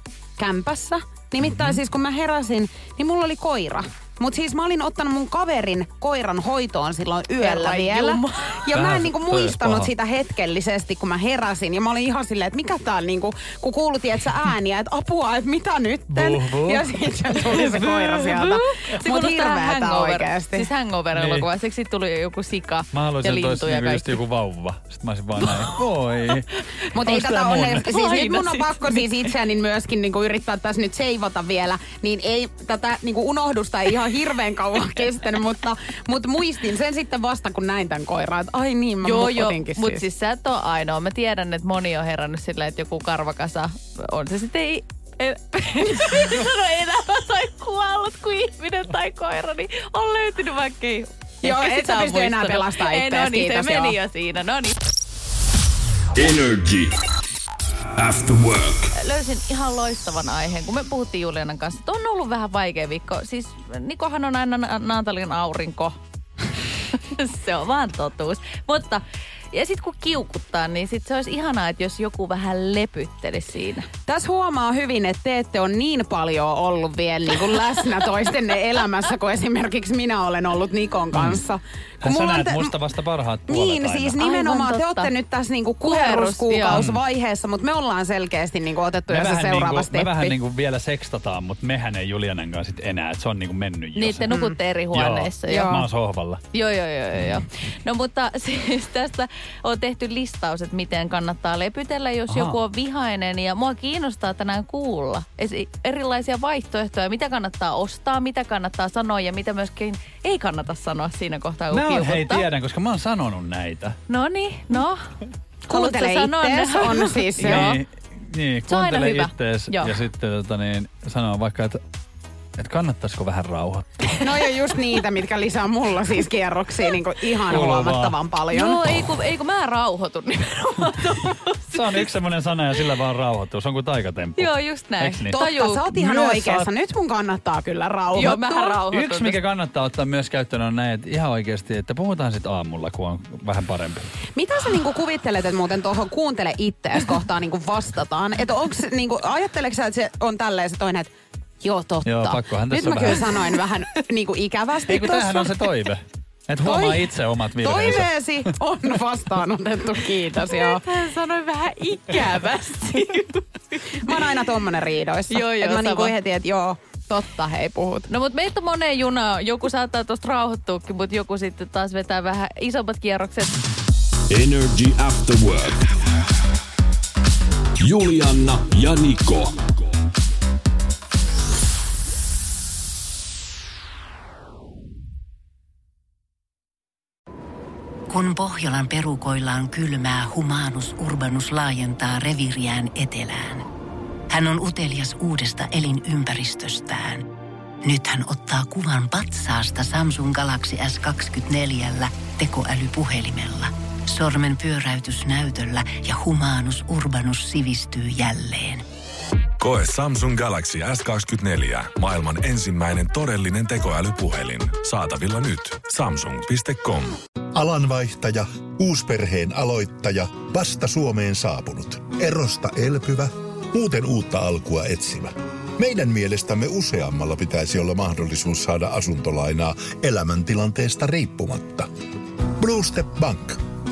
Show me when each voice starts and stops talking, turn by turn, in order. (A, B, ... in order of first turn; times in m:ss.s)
0:00.4-0:20.7 A
0:07.4-0:08.6 B
0:08.7-0:09.9 C
0:16.1-0:16.9 C
0:17.4-0:24.2 B
0:21.1-0:21.5 C
0:22.9-0:26.5 C
0:26.9-0:40.1 A
0:27.0-0:27.9 C
0:27.8-0:29.3 B
0:39.0-0:54.8 B
0:51.4-0:54.0 A
0:56.1-0:56.9 D
0:58.0-0:58.9 D
0:59.0-1:06.0 B
1:06.9-1:13.9 B
1:14.1-1:22.8 A
1:21.1-1:21.4 C
1:22.0-1:24.2 C
1:23.5-1:30.4 A
1:24.1-1:25.1 B
1:25.8-1:26.9 B
1:26.7-1:27.0 C
1:29.1-1:36.5 C
1:34.0-1:35.8 B
1:34.3-1:34.6 A
1:35.5-1:35.8 A
1:36.5-1:52.5 B
1:42.3-1:42.6 C
1:51.7-1:54.0 C
1:54.1-1:55.0 B
1:55.7-1:57.8 A
1:55.7-1:57.8 B
1:57.4-2:01.8 C
1:58.7-2:00.0 B
2:02.6-2:04.2 C
2:04.2-2:09.0 A
2:07.5-2:08.2 C
2:08.5-2:12.0 B
2:11.7-2:16.7 C
2:14.4-2:15.9 B
2:15.3-2:18.8 A
2:18.1-2:19.4 B
2:18.9-2:24.0 C
2:24.4-2:35.5 A
2:32.0-2:33.5 C
2:34.9-2:38.5 C
2:36.6-2:37.1 A
2:37.6-2:40.9 A
2:40.3-2:44.3 B
2:43.9-2:48.1 A
2:45.3-2:46.1 B
2:48.1-2:53.6 B
2:54.3-2:56.0 D
2:57.8-2:59.7 D
3:08.1-3:13.6 E
3:14.3-3:17.3 E
3:17.8-3:28.8 E
3:29.6-3:37.2 F
3:37.5-3:51.9 G
3:52.6-3:53.6 G